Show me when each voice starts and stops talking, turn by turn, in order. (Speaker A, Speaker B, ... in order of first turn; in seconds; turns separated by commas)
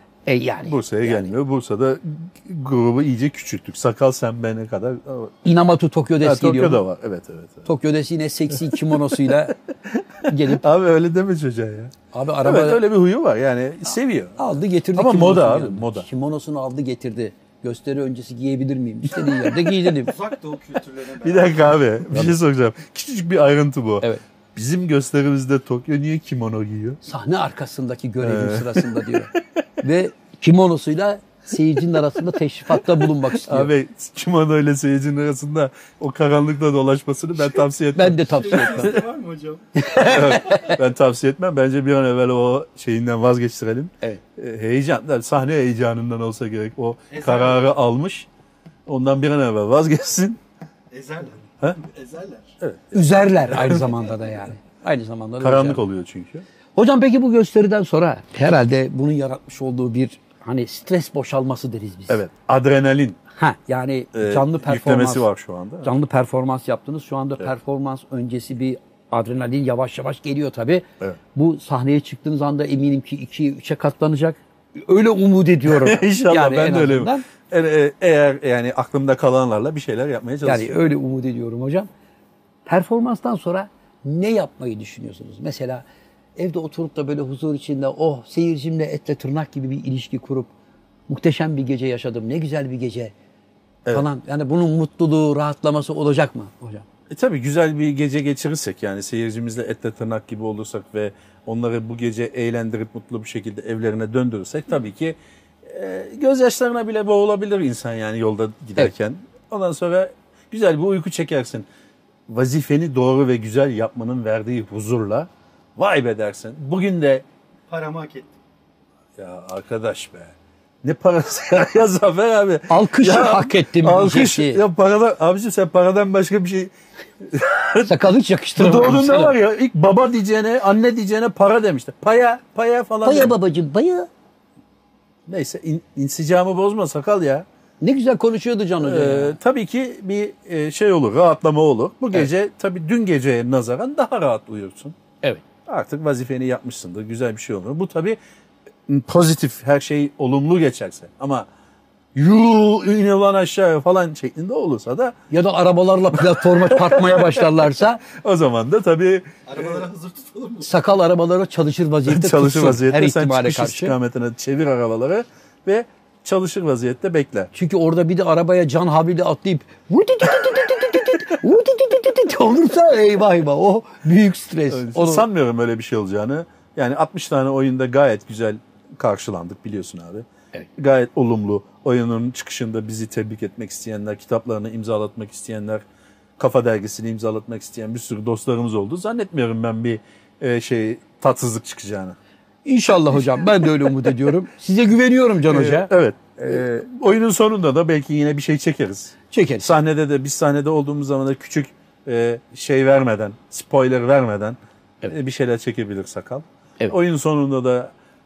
Speaker A: 0.3-1.3, Speaker B: 0.6-5.3, Speaker A: 5.4-6.8, Speaker B: 6.2-7.7, Speaker A: 7.7-9.6, Speaker B: 8.7-14.4, Speaker A: 10.3-10.6, Speaker A: 12.1-12.8, Speaker A: 14.4-20.1, Speaker B: 14.9-16.1, Speaker C: 20.0-21.9, Speaker B: 21.2-27.0, Speaker A: 27.1-33.7, Speaker B: 28.2-29.4, Speaker B: 33.0-39.0, Speaker A: 38.0-39.0, Speaker C: 38.2-40.1, Speaker A: 39.8-40.8, Speaker B: 40.0-48.3, Speaker C: 47.1-47.7, Speaker B: 48.9-50.4, Speaker C: 50.9-52.5, Speaker B: 52.6-53.9, Speaker A: 52.9-55.8, Speaker B: 55.4-56.5, Speaker A: 56.8-62.2, Speaker B: 62.1-63.2, Speaker A: 63.4-65.3, Speaker B: 64.1-65.9, Speaker A: 65.8-77.3, Speaker B: 75.7-80.9, Speaker A: 80.4-81.9, Speaker A: 82.7-85.8, Speaker A: 86.4-90.5, Speaker A: 91.1-93.1, Speaker A: 93.9-96.9, Speaker B: 97.1-111.7, Speaker B: 112.3-117.2, Speaker C: 117.7-118.4, Speaker B: 119.2-127.9, Speaker A: 122.7-124.6, Speaker A: 127.8-129.4, Speaker B: 128.6-133.3, Speaker A: 133.0-134.1, Speaker B: 135.3-137.5, Speaker A: 137.8-139.4, Speaker B: 138.8-145.0, Speaker B: 145.7-148.2, Speaker B: 148.9-151.5, Speaker B: 152.1-155.2, Speaker A: 155.3-158.0, Speaker B: 156.1-159.8, Speaker C: 159.5-160.7, Speaker A: 160.6-164.0, Speaker B: 162.1-167.5, Speaker A: 167.5-175.3, Speaker B: 174.7-180.3, Speaker B: 180.8-185.8, Speaker B: 186.4-192.2, Speaker A: 192.6-196.8, Speaker B: 195.5-207.9, Speaker A: 199.3-199.7